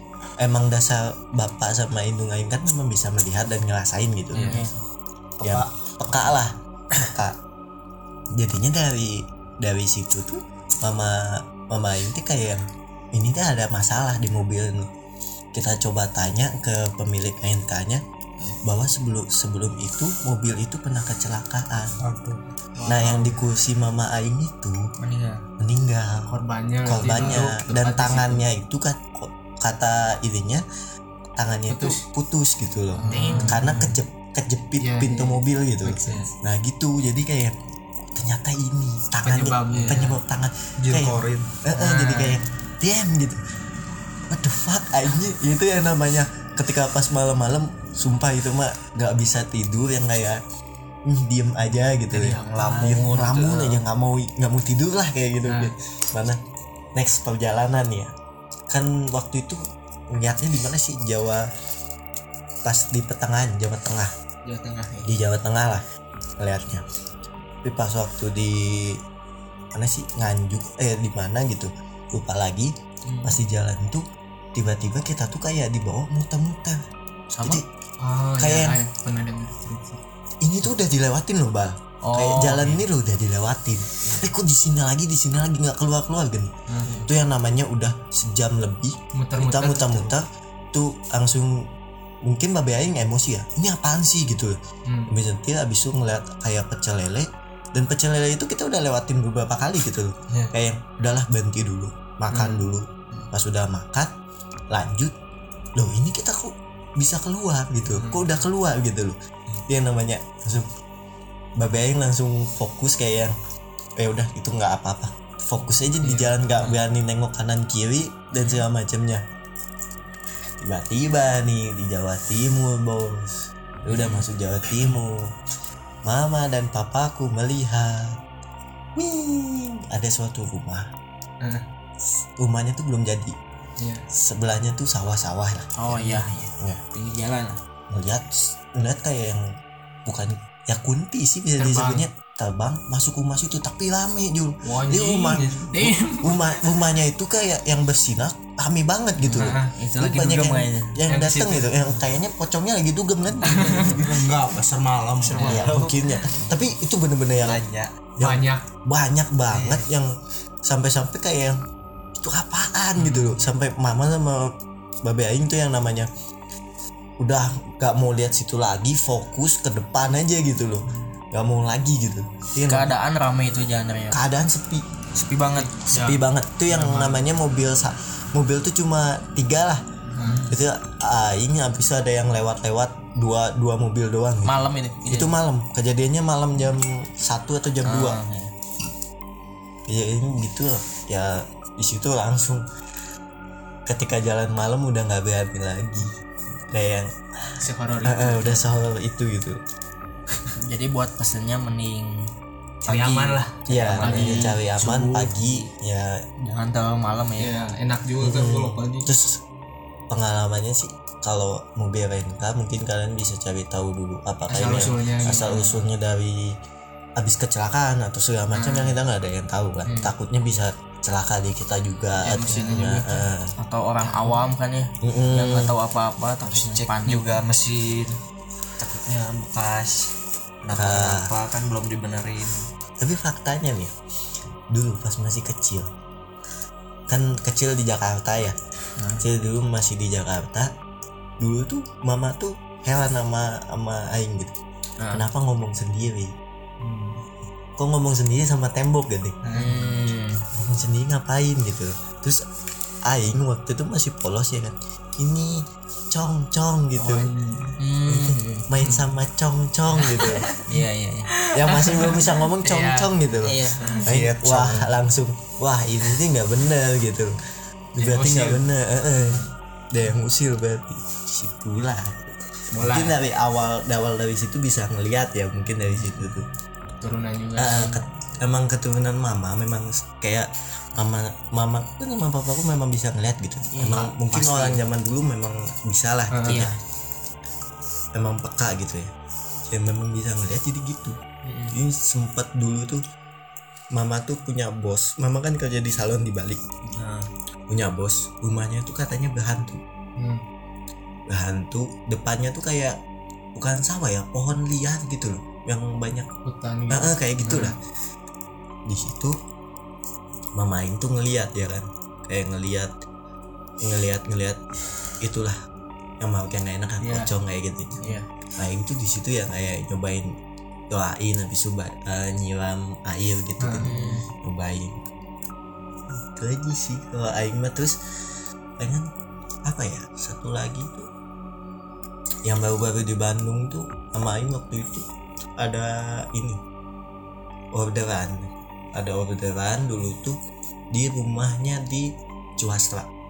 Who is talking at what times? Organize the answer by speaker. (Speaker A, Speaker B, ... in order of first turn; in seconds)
Speaker A: 0.4-4.6, 5.4-6.6, 7.1-7.4, 8.4-14.9, 15.5-18.0, 18.6-22.0, 22.9-24.8, 25.6-26.3, 26.9-30.6, 31.4-37.5, 38.1-43.4, 44.3-50.4, 51.1-56.4, 57.0-58.1, 58.7-61.5, 62.6-64.1, 65.0-65.8, 66.4-66.8, 67.6-69.0, 69.7-72.7, 73.2-76.8, 78.4-78.8, 80.4-86.5, 87.0-91.7, 92.3-94.6, 95.1-104.1, 104.7-105.2, 105.8-109.2, 109.7-110.7, 111.6-113.3, 114.0-119.2, 120.6-125.3, 126.0-128.2, 129.0-130.9, 132.4-133.4, 134.1-136.8, 137.9-139.4, 140.1-154.0, 155.4-157.6, 158.2-160.1, 160.7-161.6, 162.2-164.5, 165.0-166.1, 167.2-172.9, 174.1-174.9, 175.9-179.8, 180.5-188.2, 189.9-192.7, 193.9-196.1, 196.7-199.6, 203.7-206.2, 208.2-209.4, 210.1-216.5, 217.2-223.5, 225.0-225.7, 230.7-231.3, 233.0-233.9, 234.7-235.9, 237.1-238.6, 239.2-240.7, 241.4-244.6, 245.1-246.3, 247.8-249.4, 250.6-252.4, 253.1-257.3, 258.1-260.5, 261.5-267.4, 267.9-276.5, 277.6-286.7, 288.1-289.1, 289.7-291.2, 291.7-293.0, 293.9-296.6, 297.7-299.8, 301.3-303.0, 303.6-306.3, 306.9-307.8, 308.9-309.4, 310.6-312.9, 313.8-314.6, 315.2-315.6, 316.2-318.0, 318.6-320.3, 320.9-325.0, 326.1-328.0, 328.8-329.1, 329.6-331.1, 332.4-335.1, 335.6-336.6, 337.7-340.4, 340.9-343.1
Speaker B: 4.3-4.7, 22.8-23.3, 26.3-28.4, 31.7-32.0, 32.9-33.9, 34.8-36.2, 39.2-40.1, 41.7-42.4, 52.1-53.1, 55.5-55.7, 78.0-80.0, 86.7-87.0, 89.2-90.2, 94.9-95.2, 102.3-102.7, 108.0-108.3, 116.0-116.3, 133.8-134.1, 141.6-142.1, 144.7-146.6, 149.3-149.7, 151.1-151.7, 153.4-153.9, 158.2-158.6, 163.0-163.3, 175.6-177.2, 180.2-180.4, 197.6-198.8, 202.9-204.6, 207.4-209.1, 214.5-215.7, 222.2-223.2, 224.1-224.4, 246.8-247.2, 249.4-249.9, 257.0-257.8, 261.4-263.0, 263.8-264.6, 268.0-268.6, 272.7-273.2, 277.0-278.0, 286.3-286.7, 306.5-307.8, 317.0-317.3, 323.6-324.1
Speaker C: 4.4-4.8, 25.0-25.4, 27.1-27.6, 33.1-33.9, 64.5-65.1, 73.1-73.3, 77.3-77.6, 82.0-82.8, 135.8-137.6, 145.1-145.7, 149.3-151.0, 155.3-155.7, 159.5-159.8, 172.7-174.2, 175.2-175.7, 180.2-180.6, 184.4-185.4, 187.8-188.5, 200.6-202.3, 202.8-205.7, 206.4-207.6, 218.5-218.9, 219.9-220.1, 222.3-222.9, 223.6-227.2, 249.5-250.5, 257.8-258.7, 260.2-261.3, 261.9-262.2, 263.4-264.8, 283.7-284.8, 286.4-286.8, 291.4-291.8, 296.9-297.3, 318.0-318.2, 323.8-324.3
Speaker D: 22.0-22.4, 40.8-41.5, 153.8-155.8
Speaker E: 52.5-53.8, 153.7-154.0, 155.2-155.9, 157.3-158.0, 226.4-228.2, 228.8-230.1, 230.6-232.7